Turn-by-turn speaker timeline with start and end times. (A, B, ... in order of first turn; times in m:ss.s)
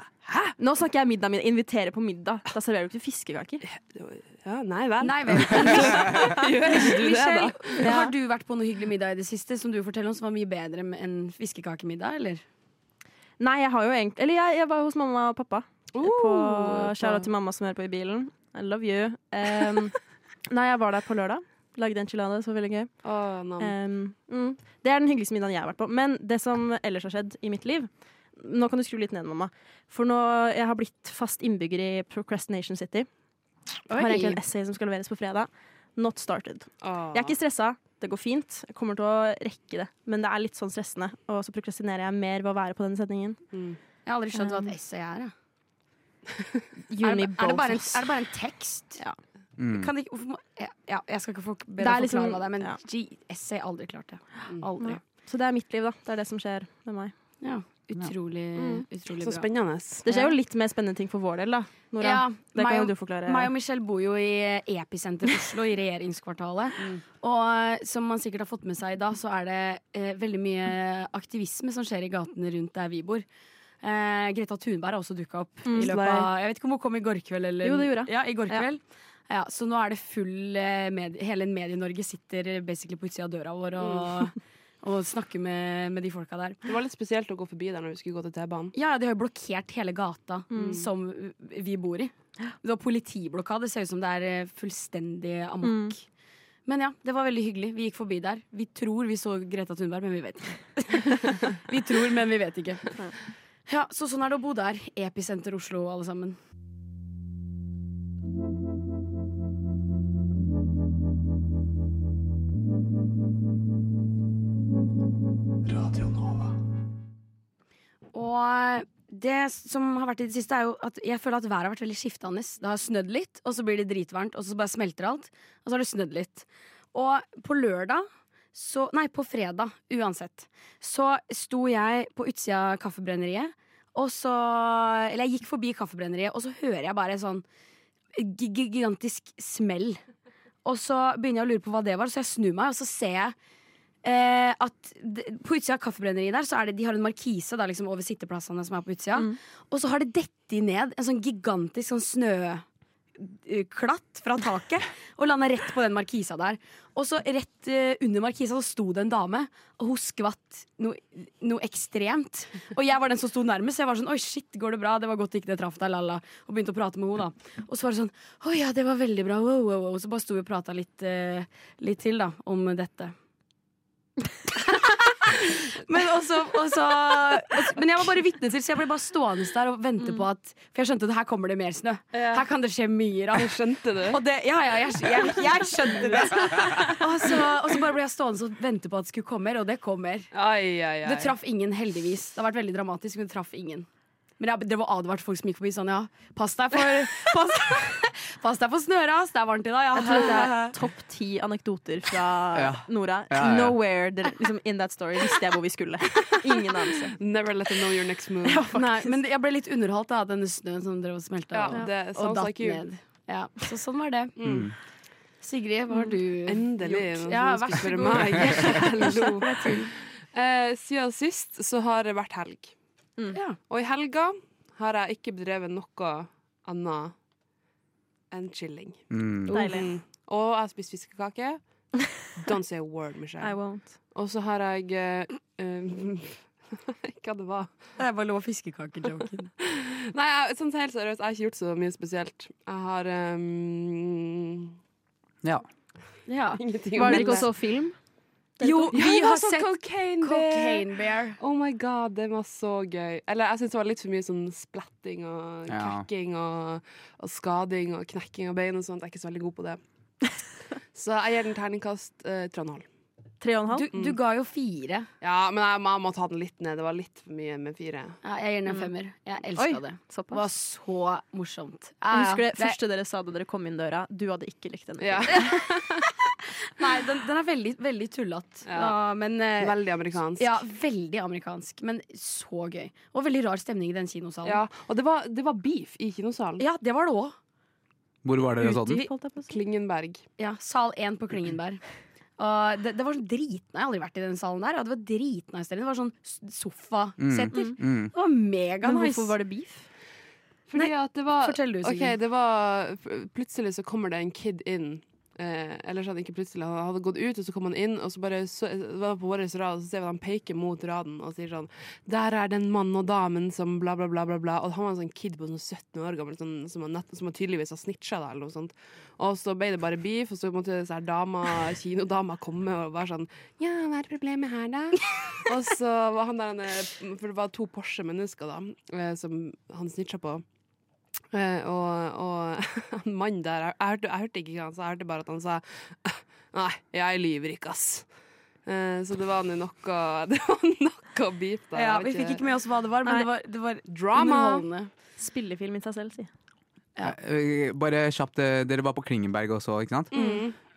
0:00.2-0:00.5 A
0:00.6-0:03.6 B
0:03.6-0:07.9 A
0:05.0-0:12.4 C
0:07.8-0:08.1 B
0:13.4-0:23.0 B
0:16.0-0:17.3 A
0:23.0-0:23.7 A
0:23.6-0:33.1 B
0:33.9-0:34.4 C
0:33.9-0:43.4 B
0:36.8-0:37.4 A
0:43.5-0:43.8 A
0:44.0-0:45.3 C
0:44.4-0:44.7 B
0:46.9-0:48.1 B
0:47.0-0:49.0 C
0:49.6-0:49.9 D
0:49.7-0:55.0 C
0:51.8-0:52.8 B
0:54.8-0:57.1 B
0:57.4-0:59.5 C
0:58.6-0:58.9 B
0:59.2-1:00.1 A
1:00.0-1:03.5 B
1:00.1-1:00.3 C
1:02.0-1:13.2 C
1:13.8-1:26.6 C
1:15.7-1:16.2 B
1:15.8-1:16.3 A
1:17.6-1:18.6 B
1:23.8-1:24.2 A
1:26.6-1:28.7 A
1:28.7-1:36.0 C
1:30.5-1:30.8 B
1:30.5-1:30.9 A
1:35.6-1:36.0 B
1:36.7-1:43.0 C
1:43.7-1:46.4 C
1:58.1-2:17.4 C
2:18.1-2:20.0 C
2:20.6-2:23.4 C
2:24.0-2:32.6 C
2:33.2-2:53.1 C
2:54.6-3:03.6 C
3:02.1-3:02.4 A
3:03.3-3:04.2 A
3:04.1-3:10.3 C
3:10.3-3:11.3 A
3:11.0-3:13.9 C
3:14.4-3:20.7 C
3:20.0-3:27.2 B
3:22.5-3:23.8 D
3:27.2-3:28.7 A
3:28.4-3:29.2 B
3:28.7-3:34.4 C
3:31.5-3:32.8 A
3:34.4-3:34.7 A
3:34.4-3:34.7 D
3:35.4-3:39.9 C
3:36.5-3:42.7 A
3:43.3-3:43.6 C
3:43.7-3:47.1 A
3:48.3-3:51.6 A
3:49.1-3:49.6 D
3:49.5-3:49.9 B
3:52.4-3:53.6 A
3:53.4-3:54.0 B
3:54.1-3:57.7 A
3:58.0-3:59.5 C
3:59.6-4:04.7 A
4:06.3-4:07.5 C
4:06.5-4:07.5 A
4:07.0-4:08.0 B
4:08.6-4:09.0 B
4:08.6-4:11.4 C
4:08.9-4:19.8 A
4:15.7-4:16.1 D
4:20.9-4:22.9 A
4:23.4-4:23.9 B
4:23.7-4:25.1 C
4:25.2-4:28.2 A
4:28.2-4:32.8 C
4:29.6-4:30.4 B
4:32.1-4:35.5 B
4:35.0-4:36.1 A
4:36.8-4:39.8 C
4:38.7-4:39.0 A
4:39.6-4:40.6 A
4:40.4-4:44.6 C
4:44.4-4:46.6 A
4:46.6-4:47.4 C
4:48.2-4:49.1 D
4:48.6-4:49.1 C
4:48.7-4:49.5 B
4:49.5-4:50.2 A
4:50.4-4:51.8 C
4:52.4-4:59.3 C
4:57.2-4:58.1 D
4:58.8-4:59.9 B
5:00.7-5:30.4 A
5:00.8-5:02.2 C
5:31.3-5:38.0 A
5:38.7-5:42.4 A
5:41.7-5:44.9 C
5:43.9-5:44.6 A
5:45.2-5:46.3 B
5:47.0-5:50.2 D
5:50.1-5:50.6 A
5:50.2-5:50.4 C